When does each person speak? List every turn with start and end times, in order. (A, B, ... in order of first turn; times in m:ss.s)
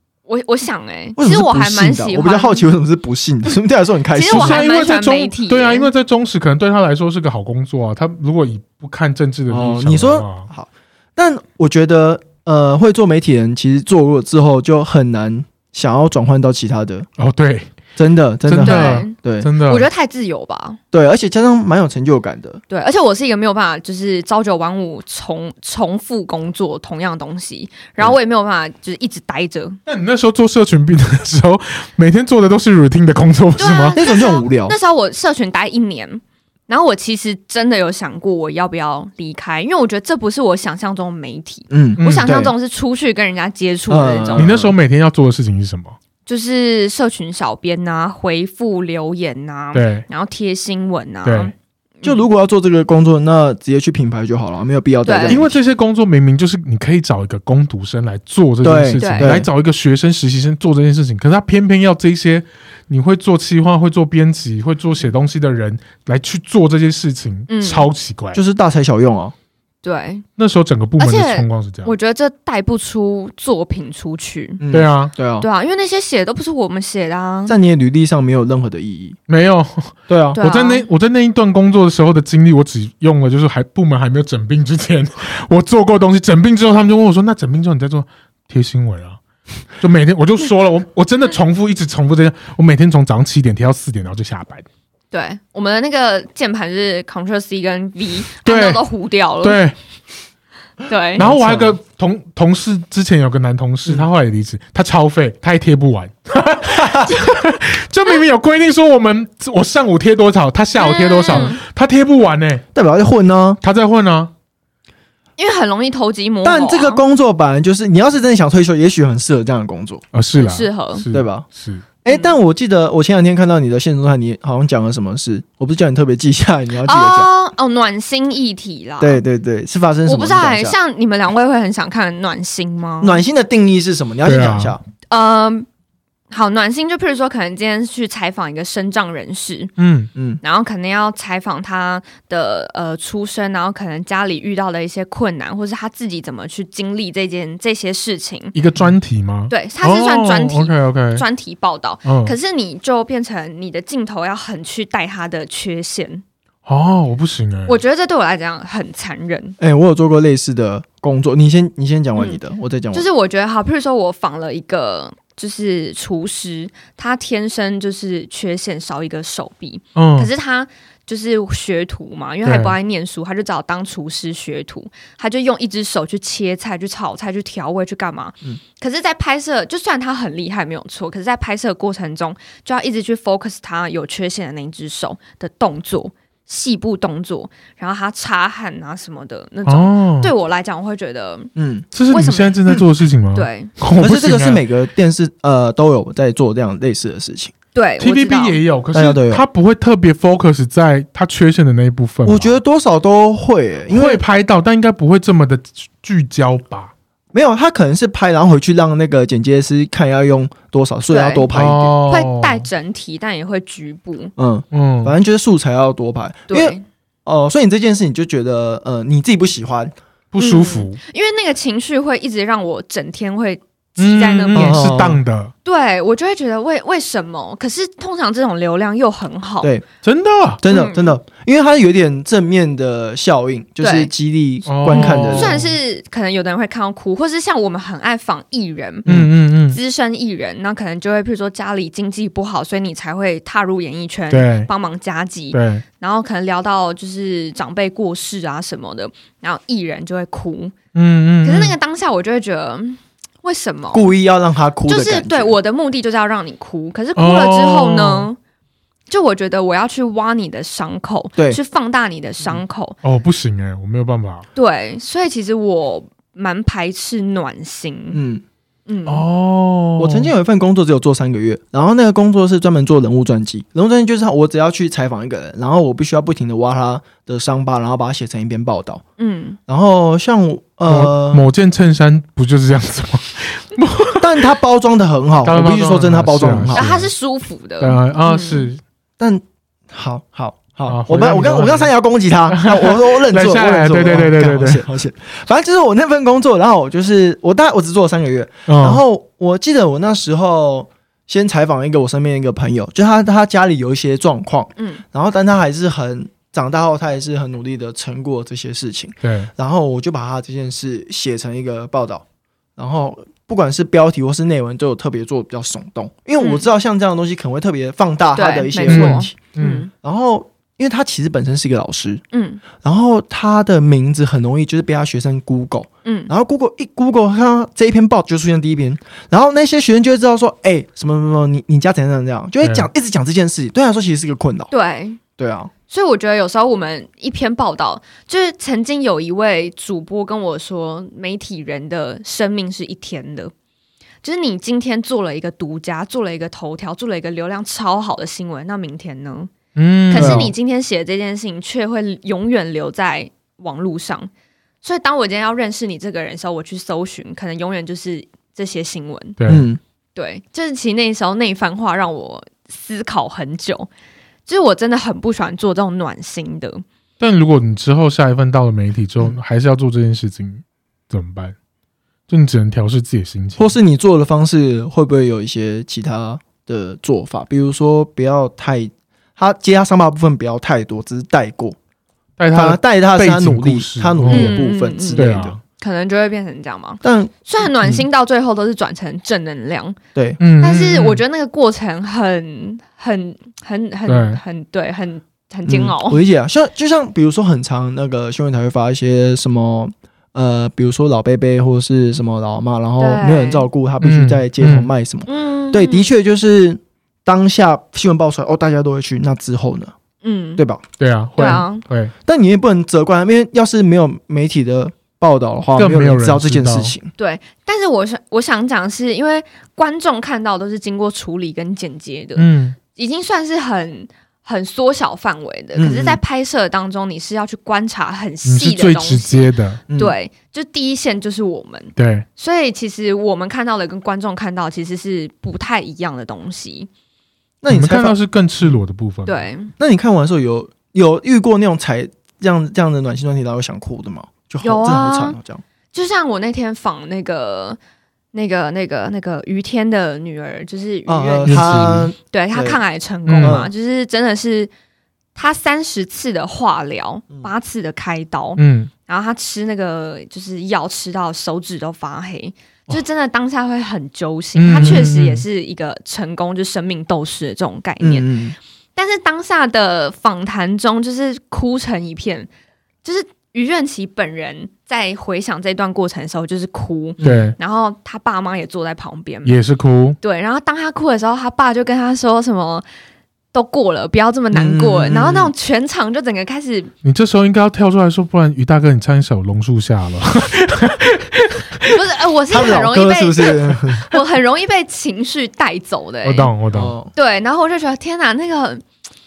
0:00.3-0:02.7 A
0:01.2-0:04.6 B
0:04.1-0:05.9 A
0:04.3-0:10.5 C
0:09.5-0:17.1 B
0:17.2-0:17.7 C
0:18.0-0:19.5 B
0:18.5-0:19.9 C
0:18.6-0:20.8 A
0:20.9-0:22.6 B
0:22.7-0:29.8 A
0:29.9-0:34.0 C
0:33.6-0:44.5 A
0:34.0-0:34.8 B
0:41.7-0:42.5 B
0:42.0-0:42.3 C
0:43.9-0:44.7 B
0:44.4-0:46.0 C
0:46.3-0:52.2 A
0:49.7-0:50.0 C
0:51.2-0:51.5 C
0:52.0-0:55.6 B
0:55.0-0:55.4 A
0:55.3-1:08.4 C
0:58.6-0:59.5 B
0:59.0-0:59.4 A
1:07.5-1:07.9 A
1:08.3-1:09.3 B
1:09.8-1:10.3 A
1:10.4-1:11.9 C
1:11.0-1:14.6 A
1:14.6-1:15.5 B
1:14.7-1:15.1 C
1:15.4-1:17.6 A
1:17.5-1:19.2 B
1:19.3-1:29.2 C
1:20.1-1:20.4 B
1:20.4-1:20.9 A
1:29.8-1:34.7 C
1:35.1-1:39.6 A
1:38.4-1:38.8 C
1:39.4-1:39.8 C
1:40.9-1:41.2 A
1:41.2-1:52.6 C
1:41.2-1:41.8 B
1:46.8-1:47.1 B
1:50.8-1:51.6 A
1:52.7-1:53.6 B
1:53.6-1:54.3 C
1:55.4-1:57.0 A
1:56.4-2:00.0 B
2:00.1-2:01.8 C
2:00.4-2:01.0 A
2:01.1-2:01.5 B
2:02.0-2:07.3 B
2:02.1-2:02.4 A
2:06.8-2:09.2 A
2:09.0-2:10.8 B
2:10.1-2:13.2 A
2:13.0-2:14.8 B
2:14.2-2:14.8 C
2:15.1-2:15.7 A
2:16.3-2:19.7 A
2:19.8-2:20.1 C
2:20.2-2:20.4 B
2:20.4-2:28.6 A
2:28.6-2:31.2 C
2:29.5-2:36.2 A
2:32.0-2:32.4 C
2:36.7-2:37.8 C
2:37.7-2:39.6 A
2:39.6-2:43.1 B
2:42.9-3:11.5 A
2:50.0-2:50.3 C
2:52.4-2:52.7 C
3:09.7-3:10.3 C
3:11.6-3:11.9 B
3:11.9-3:14.6 C
3:12.1-3:12.6 A
3:13.3-3:13.7 A
3:14.0-3:17.5 B
3:17.7-3:18.6 A
3:18.0-3:22.6 C
3:18.9-3:19.4 B
3:22.2-3:24.2 B
3:23.9-3:26.9 C
3:27.3-3:32.0 B
3:31.1-3:31.5 A
3:31.5-3:32.7 C
3:32.1-3:34.3 A
3:34.4-3:39.9 B
3:34.7-3:35.2 C
3:36.5-3:36.8 A
3:40.3-3:41.0 C
3:40.4-3:44.9 A
3:44.0-3:45.5 C
3:44.6-3:45.2 B
3:45.6-3:49.7 A
3:50.0-3:50.6 C
3:50.6-3:55.6 B
3:50.7-3:51.2 A
3:53.8-3:54.1 A
3:54.7-3:55.8 C
3:54.9-3:59.1 A
3:59.1-3:59.8 C
3:59.7-4:10.7 A
4:04.3-4:04.7 C
4:05.5-4:05.8 C
4:11.0-4:11.8 C
4:11.4-4:14.1 A
4:13.9-4:15.6 B
4:14.9-4:18.4 A
4:17.2-4:18.3 C
4:19.1-4:23.0 A
4:23.0-4:24.5 C
4:24.6-4:28.2 A
4:28.1-4:28.4 B
4:28.9-4:29.3 A
4:29.1-4:30.3 C
4:30.0-4:39.0 B
4:39.2-4:39.6 A
4:39.7-4:41.5 B
4:40.9-4:44.5 C
4:44.2-4:46.9 B
4:45.4-4:47.1 C
4:46.7-4:48.7 A
4:47.8-4:48.8 C
4:49.2-5:12.2 B
4:50.9-4:51.9 C
4:52.5-4:54.8 C
4:58.7-4:59.0 C
5:04.8-5:05.0 A
5:09.2-5:09.5 C
5:12.8-5:19.5 B
5:16.4-5:16.7 A
5:18.4-5:19.9 A
5:18.9-5:19.9 C
5:20.0-5:22.2 B
5:22.3-5:22.6 A
5:22.8-5:34.7 B
5:26.0-5:26.3 A
5:32.6-5:32.9 C
5:34.7-5:35.2 A
5:35.4-5:35.7 B
5:35.9-5:43.5 A
5:44.2-5:49.5 A
5:49.8-5:50.5 C
5:50.1-5:54.3 A
5:50.2-5:50.5 B
5:54.8-5:59.4 A
5:59.4-5:59.7 C
5:59.5-5:59.8 B
6:00.2-6:03.9 A
6:04.5-6:06.8 A
6:07.2-6:11.6 C
6:12.3-6:13.7 C
6:13.6-6:21.8 B
6:22.4-6:24.6 C
6:22.5-6:25.6 B
6:24.3-6:30.0 A
6:25.1-6:25.6 C
6:27.0-6:28.0 B
6:30.2-6:30.4 B
6:30.4-6:31.2 C
6:30.6-6:36.2 A
6:34.1-6:34.4 C
6:35.7-6:49.9 B
6:43.0-6:43.7 A
6:44.0-6:44.9 C
6:45.3-6:46.1 A
6:50.2-6:50.6 A
6:50.6-6:50.8 B
6:51.0-6:52.1 C
6:51.4-6:51.8 A
6:52.2-6:57.1 B
6:55.8-6:56.9 C
6:57.2-7:16.9 A
7:02.4-7:02.8 C
7:05.8-7:06.2 B
7:08.4-7:09.8 C
7:09.9-7:10.2 B
7:12.0-7:12.3 C
7:17.6-7:18.2 B
7:17.7-7:19.5 C
7:19.3-7:19.7 A
7:19.8-7:25.6 B
7:24.6-7:25.4 A
7:25.9-7:27.8 A
7:28.3-7:34.7 A
7:31.1-7:32.8 B
7:31.5-7:32.1 C
7:33.3-7:33.6 C
7:33.4-7:33.7 B
7:35.4-7:48.3 A
7:38.6-7:38.9 C
7:44.6-7:45.4 C
7:44.7-7:45.1 B
7:48.0-7:48.6 B
7:49.0-7:52.5 A
7:53.0-7:59.6 A
7:57.2-7:57.5 B
7:57.2-7:57.6 C
7:59.4-8:00.2 C
8:00.2-8:02.8 A
8:03.5-8:06.9 A
8:04.5-8:05.5 B
8:07.0-8:12.0 C
8:11.9-8:16.5 A
8:12.5-8:14.1 B
8:16.2-8:17.0 C
8:16.7-8:17.1 B
8:17.1-8:18.8 A